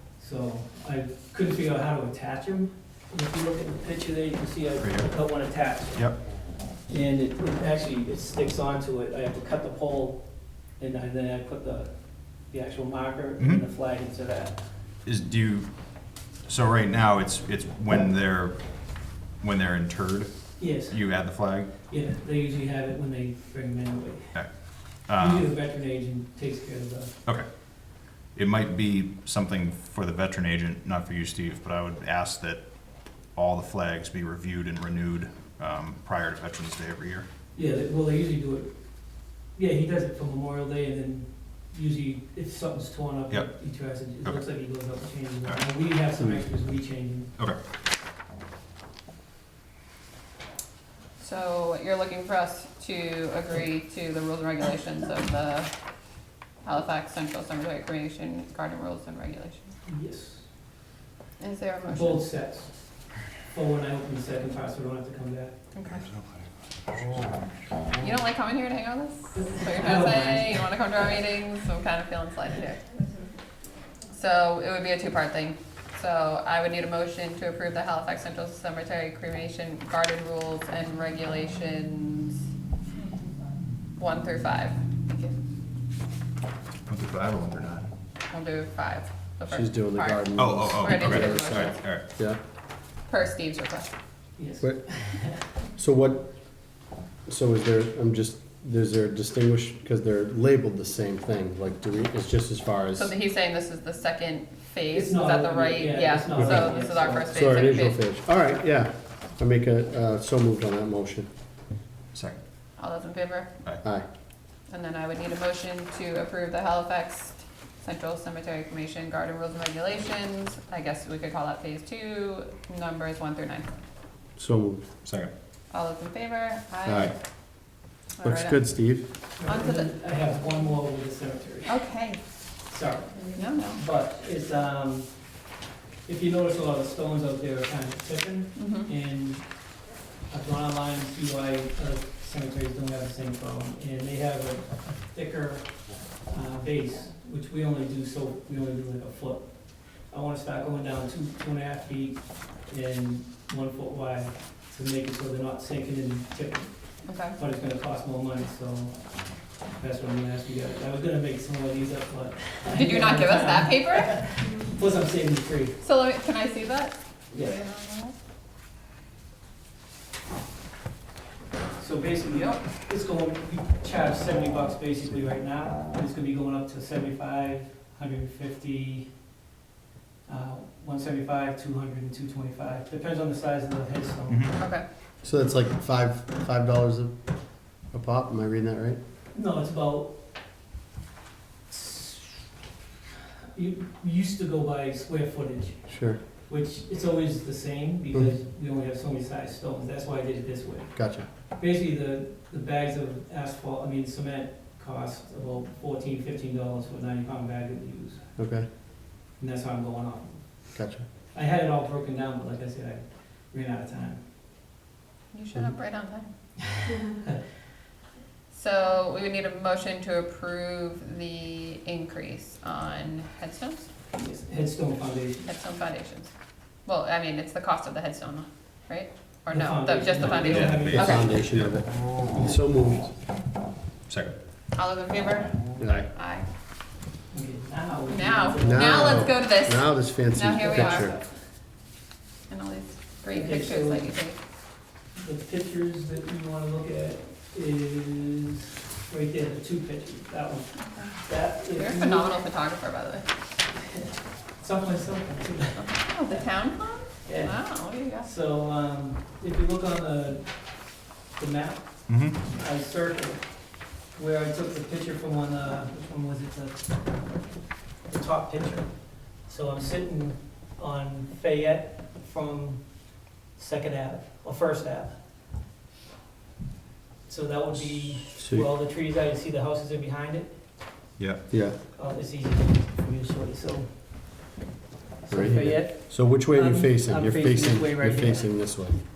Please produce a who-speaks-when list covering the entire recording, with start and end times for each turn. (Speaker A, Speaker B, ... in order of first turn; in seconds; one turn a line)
Speaker A: 0.2-6.1
Speaker B: 4.8-5.1
Speaker A: 6.9-14.7
Speaker B: 15.1-21.7
Speaker A: 20.6-21.3
Speaker A: 21.9-24.4
Speaker B: 24.3-25.5
Speaker A: 25.1-27.1
Speaker B: 28.3-32.7
Speaker B: 33.3-37.3
Speaker A: 37.5-47.3
Speaker B: 43.3-44.5
Speaker C: 51.2-55.7
Speaker C: 56.6-59.7
Speaker A: 59.9-60.5
Speaker C: 61.4-62.2
Speaker A: 61.9-65.6
Speaker C: 65.7-66.0
Speaker B: 65.9-67.2
Speaker C: 68.0-72.9
Speaker A: 69.4-70.8
Speaker C: 74.1-82.4
Speaker C: 84.0-85.3
Speaker B: 86.9-87.9
Speaker C: 88.3-91.8
Speaker D: 89.5-92.4
Speaker B: 90.4-92.1
Speaker C: 93.1-93.9
Speaker A: 94.4-95.5
Speaker D: 94.6-95.0
Speaker D: 95.8-96.3
Speaker D: 97.3-103.1
Speaker C: 103.0-108.0
Speaker A: 104.9-107.3
Speaker D: 106.4-111.3
Speaker B: 112.1-112.4
Speaker C: 112.8-113.6
Speaker C: 114.7-123.8
Speaker D: 124.4-124.8
Speaker B: 125.0-125.3
Speaker C: 125.7-127.1
Speaker D: 126.9-127.1
Speaker C: 128.2-128.8
Speaker D: 128.2-129.1
Speaker A: 129.4-131.8
Speaker C: 129.4-130.0
Speaker C: 131.7-132.2
Speaker A: 132.7-135.4
Speaker C: 133.2-133.8
Speaker A: 136.1-139.7
Speaker C: 138.6-138.9
Speaker A: 140.3-159.2
Speaker C: 157.1-157.4
Speaker A: 159.7-165.8
Speaker C: 162.7-164.2
Speaker C: 165.8-168.2
Speaker A: 167.3-167.6
Speaker A: 171.8-179.1
Speaker A: 180.3-184.6
Speaker B: 184.3-184.5
Speaker C: 184.6-184.8
Speaker D: 185.2-187.1
Speaker D: 187.9-189.0
Speaker A: 189.3-190.2
Speaker A: 191.7-192.5
Speaker A: 193.5-208.3
Speaker D: 195.9-196.2
Speaker D: 200.9-201.3
Speaker D: 208.4-208.7
Speaker A: 209.4-210.8
Speaker D: 210.8-211.1
Speaker A: 211.3-214.2
Speaker C: 215.3-216.3
Speaker A: 217.1-217.4
Speaker C: 218.5-223.9
Speaker A: 224.1-225.5
Speaker C: 225.5-226.3
Speaker C: 226.8-231.3
Speaker A: 229.5-231.3
Speaker B: 230.4-231.8
Speaker D: 230.8-233.1
Speaker B: 234.1-234.4
Speaker C: 234.7-236.5
Speaker D: 235.8-236.1
Speaker A: 237.3-239.4
Speaker C: 238.1-241.2
Speaker D: 238.6-241.2
Speaker A: 240.6-241.4
Speaker C: 242.5-244.4
Speaker A: 243.3-244.2
Speaker A: 245.2-252.4
Speaker C: 250.8-253.3
Speaker A: 253.9-256.0
Speaker C: 255.8-258.3
Speaker A: 257.2-260.8
Speaker A: 261.4-267.0
Speaker B: 262.1-262.4
Speaker A: 268.1-275.2
Speaker A: 277.3-280.6
Speaker D: 278.4-278.7
Speaker D: 281.5-281.8
Speaker A: 281.9-283.9
Speaker A: 285.2-288.5
Speaker D: 285.3-289.0